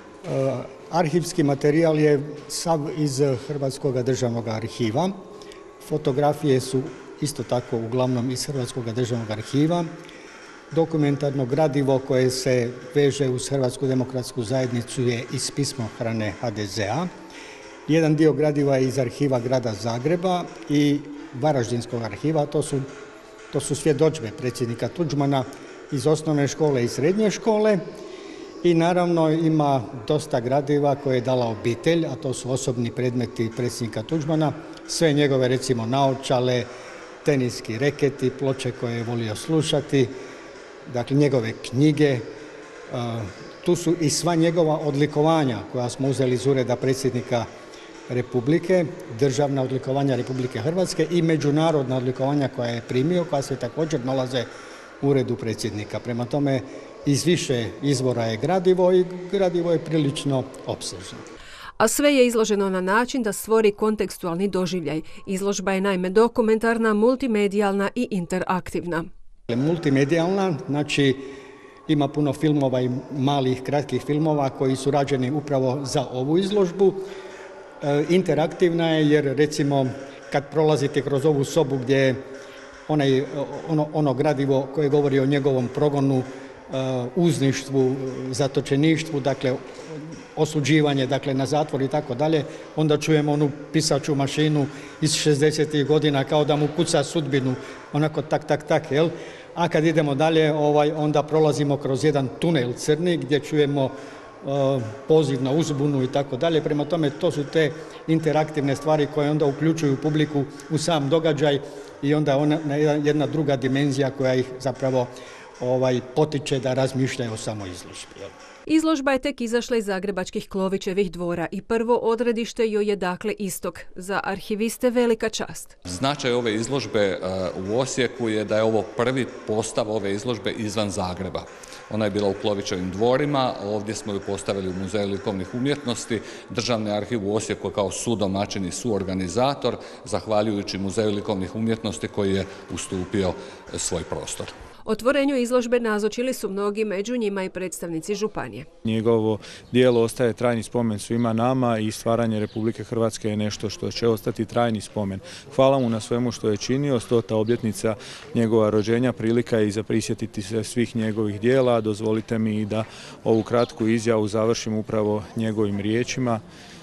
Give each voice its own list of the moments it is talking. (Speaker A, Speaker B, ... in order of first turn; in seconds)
Speaker A: 0.2-5.2, 5.8-9.9, 10.7-17.1, 17.9-22.9, 23.5-27.8, 28.6-36.7, 37.2-40.2, 40.9-42.3, 42.9-47.5, 48.1-54.5, 55.0-61.2, 69.5-71.3, 71.9-77.1, 77.8-82.2, 82.9-118.3
Speaker B: 61.8-69.1, 118.7-125.8, 144.8-148.7
Speaker C: 125.9-144.5
Speaker D: 148.8-166.4